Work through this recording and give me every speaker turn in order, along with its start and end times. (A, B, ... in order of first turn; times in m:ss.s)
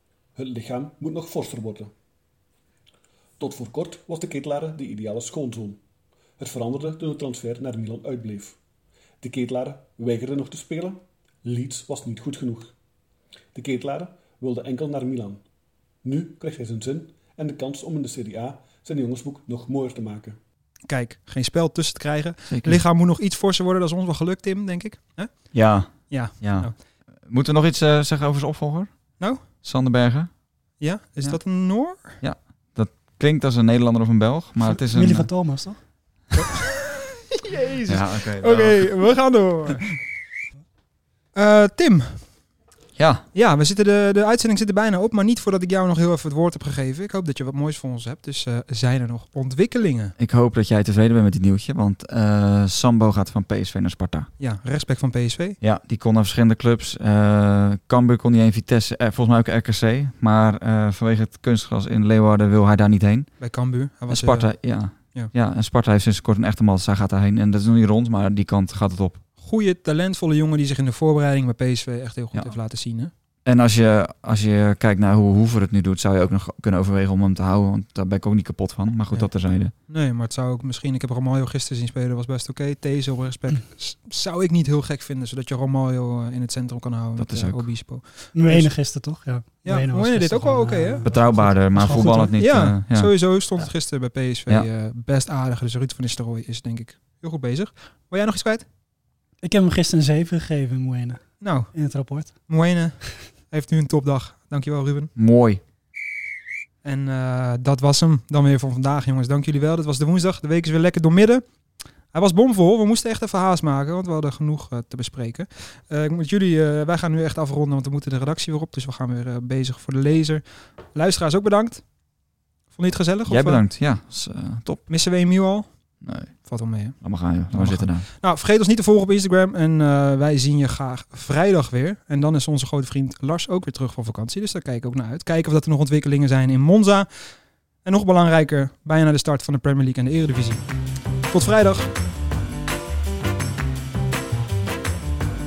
0:00.4-0:01.9 A
0:03.4-0:05.8 A
0:06.4-0:08.6 A
0:09.2-0:12.7 A
0:13.5-0:15.4 A
0:16.0-0:20.4 A
0:20.9-0:26.8 B
0:22.4-0:22.8 C
0:25.5-0:26.7 C
0:27.2-0:30.3 C
0:29.2-0:29.4 B
0:30.8-0:32.2 B
0:32.1-0:35.3 C
0:34.6-0:35.8 D
0:36.3-0:39.9 B
0:37.9-0:39.1 C
0:41.3-0:42.3 B
0:43.0-0:43.2 C
0:43.3-0:50.1 B
0:50.2-0:54.3 C
0:54.4-0:55.6 B
0:55.6-1:03.3 C
1:03.4-1:04.5 B
1:04.1-1:09.2 C
1:09.4-1:13.1 B
1:13.4-1:19.7 C
1:19.9-1:28.7 B
1:27.2-1:27.6 C
1:28.3-1:32.3 D
1:29.6-1:31.0 B
1:31.0-1:33.2 C
1:31.9-1:38.6 B
1:39.4-1:42.4 D
1:41.4-1:41.7 B
1:42.5-1:45.1 B
1:45.2-1:45.6 C
1:46.8-1:51.4 B
1:52.1-2:01.8 B
2:02.7-2:03.6 B
2:03.3-2:04.9 C
2:04.9-2:05.7 B
2:06.0-2:08.1 C
2:06.4-2:20.6 B
2:21.3-2:21.9 B